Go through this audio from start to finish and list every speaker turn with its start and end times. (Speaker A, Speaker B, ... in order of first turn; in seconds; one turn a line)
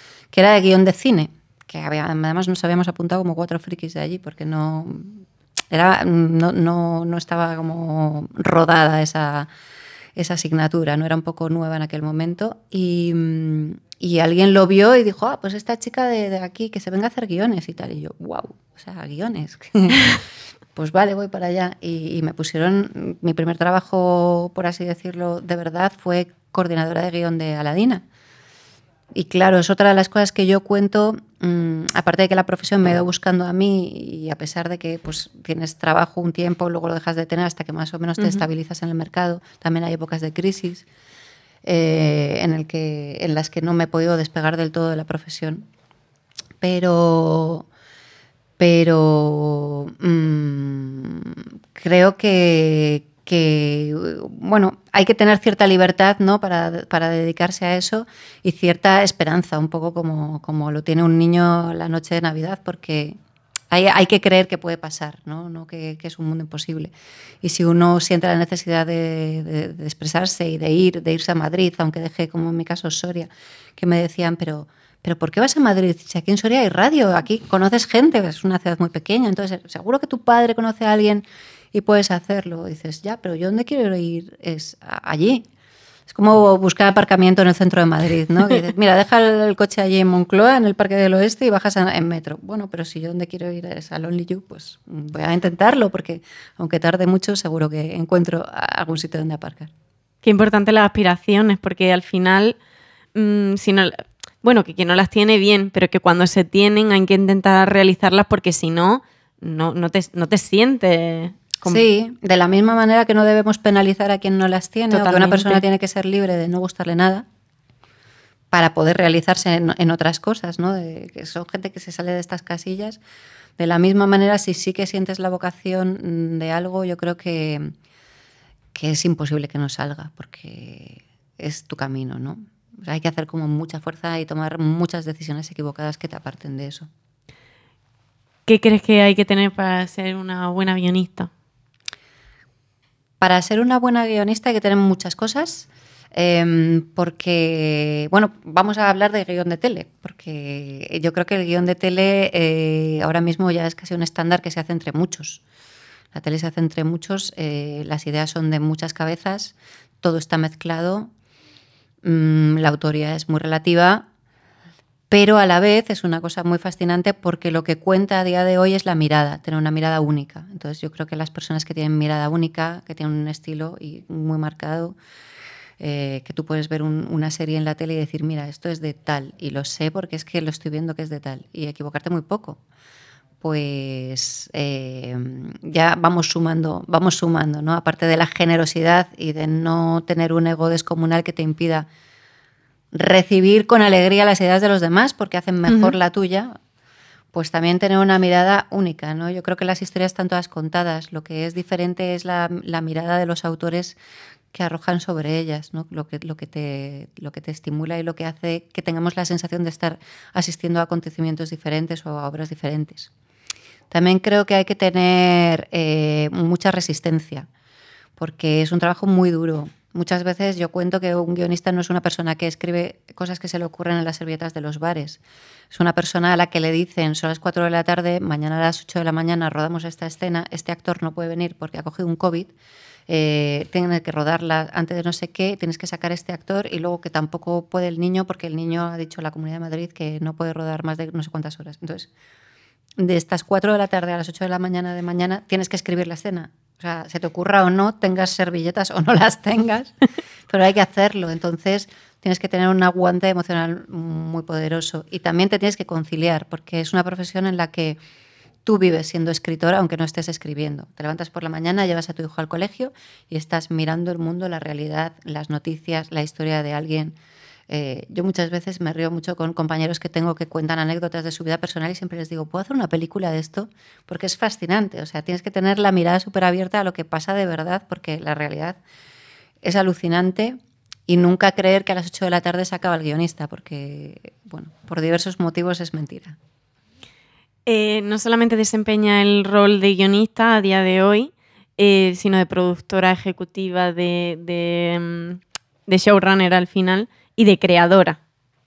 Speaker A: 0.3-9.5
Speaker A: 10.2-20.2
Speaker A: 20.7-28.0
Speaker A: 29.1-40.8
Speaker B: 38.2-38.4
Speaker A: 41.6-45.6
Speaker A: 46.6-47.6
Speaker A: 48.6-63.2
Speaker A: 63.7-66.9
Speaker A: 67.4-85.4
Speaker A: 86.1-99.7
Speaker B: 100.2-102.5
Speaker B: 103.1-111.8
Speaker A: 111.6-117.2
Speaker B: 114.9-115.6
Speaker A: 118.5-123.0
Speaker A: 123.6-127.7
Speaker A: 128.7-136.9
Speaker B: 138.5-141.3
Speaker A: 143.2-155.4
Speaker A: 156.1-161.1
Speaker A: 162.0-164.1
Speaker A: 165.1-174.9
Speaker A: 175.8-182.6
Speaker A: 183.4-191.9
Speaker A: 192.9-196.6
Speaker B: 195.7-195.9
Speaker A: 197.3-203.9
Speaker A: 204.5-213.1
Speaker A: 213.9-217.5
Speaker A: 218.2-225.2
Speaker A: 225.7-232.5
Speaker A: 233.1-242.1
Speaker A: 243.0-249.9
Speaker A: 250.5-258.0
Speaker A: 258.6-267.1
Speaker A: 267.7-278.8
Speaker A: 279.6-286.4
Speaker B: 287.6-298.2